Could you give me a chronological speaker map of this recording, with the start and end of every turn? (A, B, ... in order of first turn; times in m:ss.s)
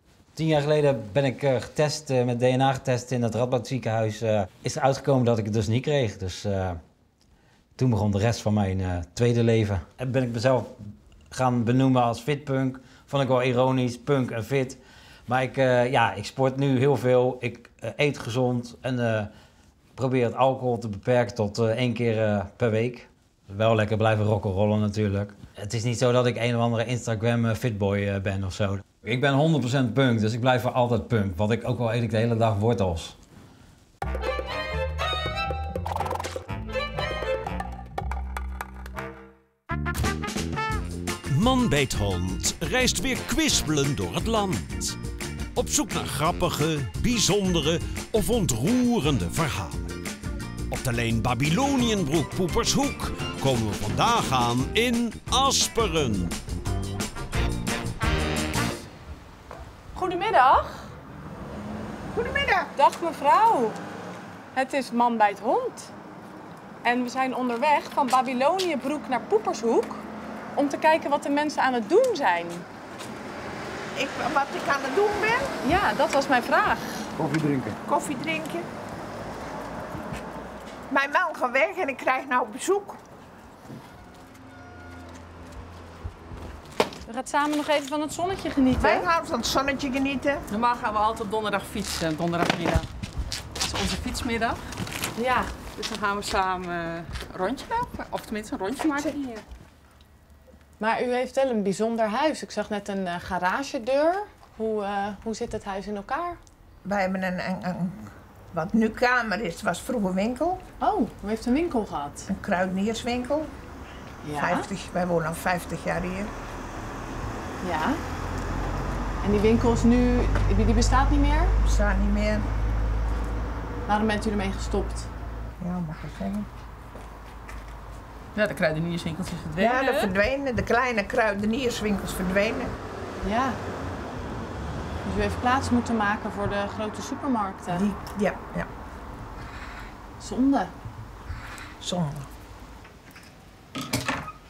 0:00.4-0:06.8 A
0:07.8-0:10.7 A
0:11.3-0:19.3 A
0:20.0-0:33.1 A
0:41.3-0:45.0 B
0:45.6-0:50.0 B
0:50.7-0:56.4 B
0:59.9-1:00.9 C
1:02.2-1:02.5 D
1:02.8-1:03.8 C
1:04.6-1:05.9 C
1:06.8-1:10.0 C
1:10.6-1:12.6 C
1:13.9-1:15.5 D
1:15.6-1:16.9 C
1:17.9-1:18.7 D
1:20.9-1:23.0 D
1:27.1-1:29.1 C
1:28.8-1:30.4 D
1:30.5-1:32.0 E
1:35.2-1:35.5 C
1:35.9-1:36.6 E
1:37.4-1:39.4 E
1:40.8-1:46.4 C
1:46.8-1:50.6 D
1:50.8-1:52.3 C
1:52.3-1:53.5 D
1:54.2-1:54.7 C
1:54.4-1:56.3 D
1:57.6-1:58.0 C
1:59.2-2:01.5 C
2:01.6-2:02.5 D
2:03.9-2:05.1 C
2:05.6-2:06.5 D
2:08.4-2:09.8 E
2:09.6-2:12.7 D
2:13.2-2:13.6 C
2:15.0-2:17.8 C
2:17.7-2:18.7 D
2:20.2-2:20.7 C
2:21.8-2:22.3 D